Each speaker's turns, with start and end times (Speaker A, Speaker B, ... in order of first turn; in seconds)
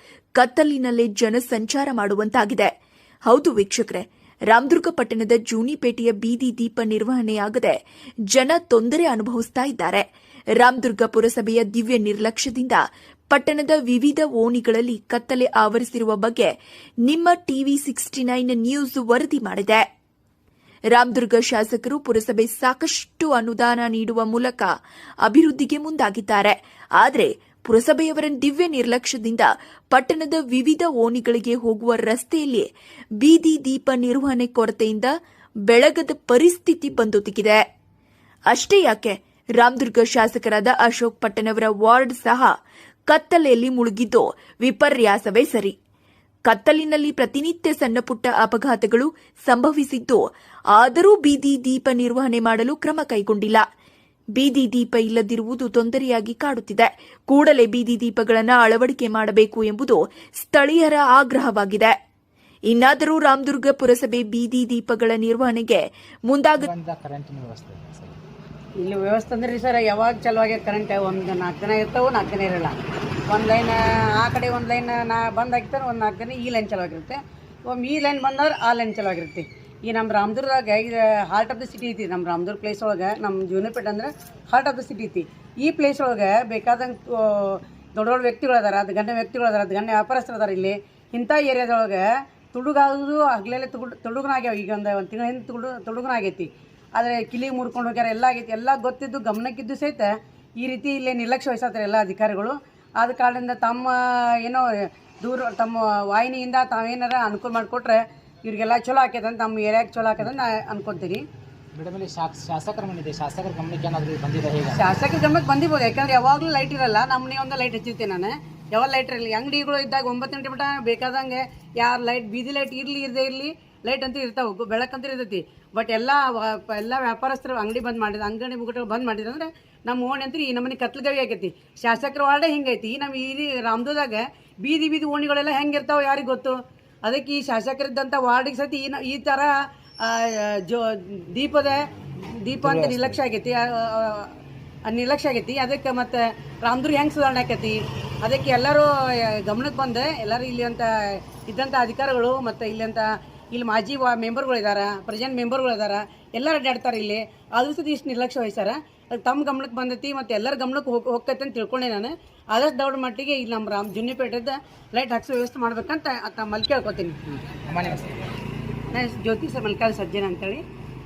Speaker A: 0.4-2.7, 3.3-7.8, 8.3-10.0, 10.6-16.5, 17.1-19.8, 20.9-24.7, 25.2-32.7, 33.2-35.1, 35.7-37.6, 38.5-42.5, 43.1-45.8, 46.5-50.2, 50.7-53.6, 54.4-61.9, 62.7-66.7
Speaker B: 66.6-68.2, 111.8-115.0, 142.6-143.2, 167.7-168.3
Speaker C: 68.8-72.8, 73.3-100.1, 100.6-104.6, 105.2-111.2, 114.7-141.8, 142.4-144.3, 144.9-150.9, 151.5-167.3, 168.9-170.6